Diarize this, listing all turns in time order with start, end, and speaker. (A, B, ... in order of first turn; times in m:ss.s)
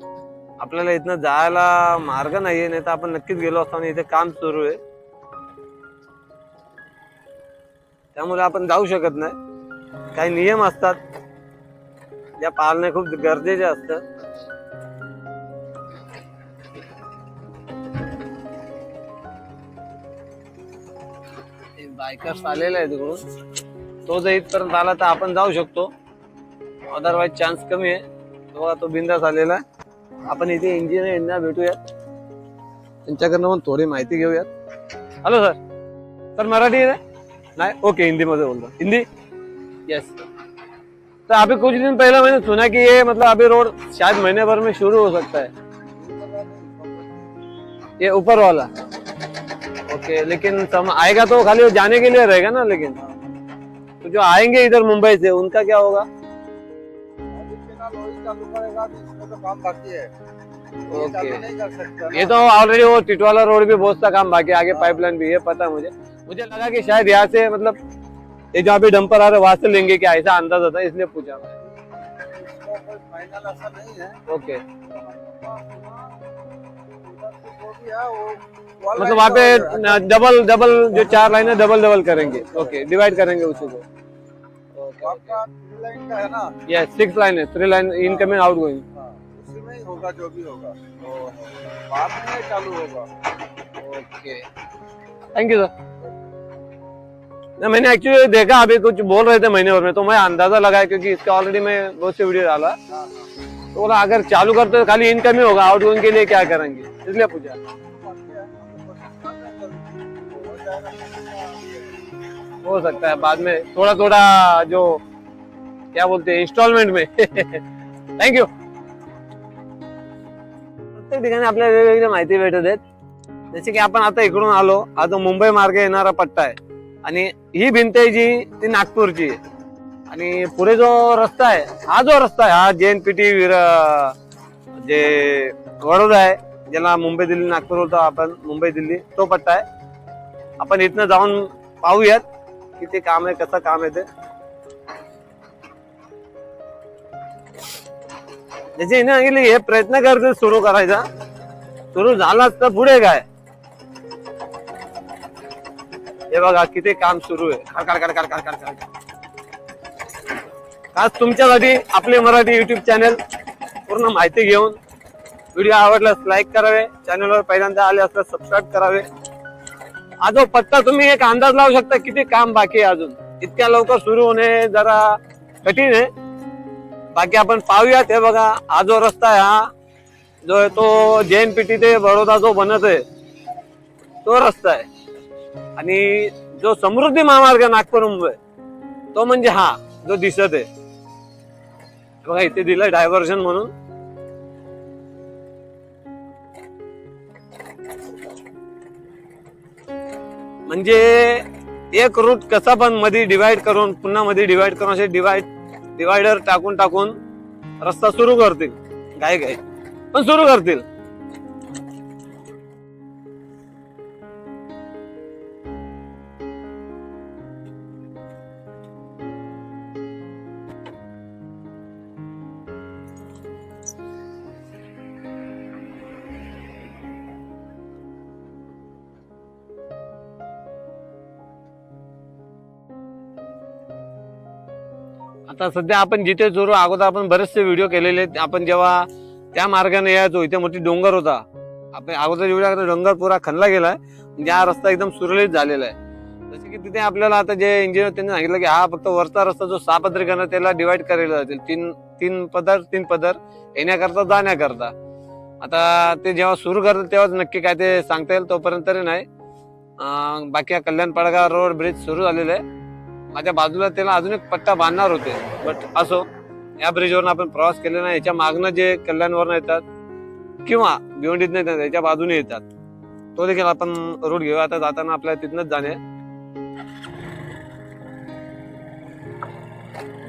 0:00.6-0:04.8 A
0:08.1-0:09.3 A
0:10.1-0:11.0 A
0:12.4-0:14.0 A
0:21.8-0:23.2 A
0:24.0-0:25.9 A
0:26.9-0:29.6 A
0:30.2-0:31.8 A
0:33.0-0:34.5 A
0:35.2-0:35.6 A
0:36.4-0:37.0 A
0:37.6-0:39.0 A
0:39.9-0:40.2 A
0:41.3-0:45.5 A
0:46.0-0:47.3 B
0:48.0-0:48.7 A
0:49.9-0:53.0 A
0:54.0-0:56.0 A
0:57.3-1:00.1 B
1:00.9-1:02.3 B
1:00.9-1:01.4 A
1:02.1-1:07.8 A
1:08.5-1:11.5 A
1:11.6-1:14.2 B
1:14.3-1:14.6 A
1:14.8-1:16.2 B
1:17.0-1:20.1 B
1:19.0-1:23.8 A
1:20.9-1:21.3 B
1:22.4-1:22.8 B
1:24.7-1:25.3 A
1:25.0-1:26.5 B
1:26.6-1:28.8 A
1:28.0-1:28.4 B
1:28.9-1:33.1 B
1:31.0-1:31.3 A
1:33.8-1:34.4 A
1:35.3-1:35.7 A
1:37.6-1:42.8 A
1:42.9-1:43.2 B
1:43.7-1:47.6 A
1:47.9-1:51.9 B
1:52.6-1:55.0 A
1:55.9-1:57.6 A
1:58.2-1:58.5 A
2:00.9-2:02.8 A
2:03.5-2:09.4 A
2:10.1-2:14.1 A
2:14.7-2:19.6 A
2:20.6-2:22.2 A
2:22.8-2:24.0 A
2:28.8-2:31.0 A
2:31.9-2:33.2 A
2:36.3-2:38.8 A
2:40.9-2:43.2 A
2:43.8-2:44.8 A
2:45.5-2:49.1 A
2:50.2-2:56.1 A
2:57.1-2:59.7 A
3:00.4-3:03.0 A
3:04.2-3:04.9 A
3:05.8-3:08.4 A
3:09.1-3:10.7 A
3:12.2-3:13.7 A
3:20.7-3:27.2 A
3:27.8-3:29.6 A
3:30.1-3:30.8 A
3:55.5-4:06.0 A
4:06.5-4:14.9 A
4:15.6-4:19.2 A
4:20.0-4:22.6 A
4:23.3-4:26.3 A
4:26.8-4:29.8 A
4:30.6-4:32.6 A
4:33.4-4:36.0 A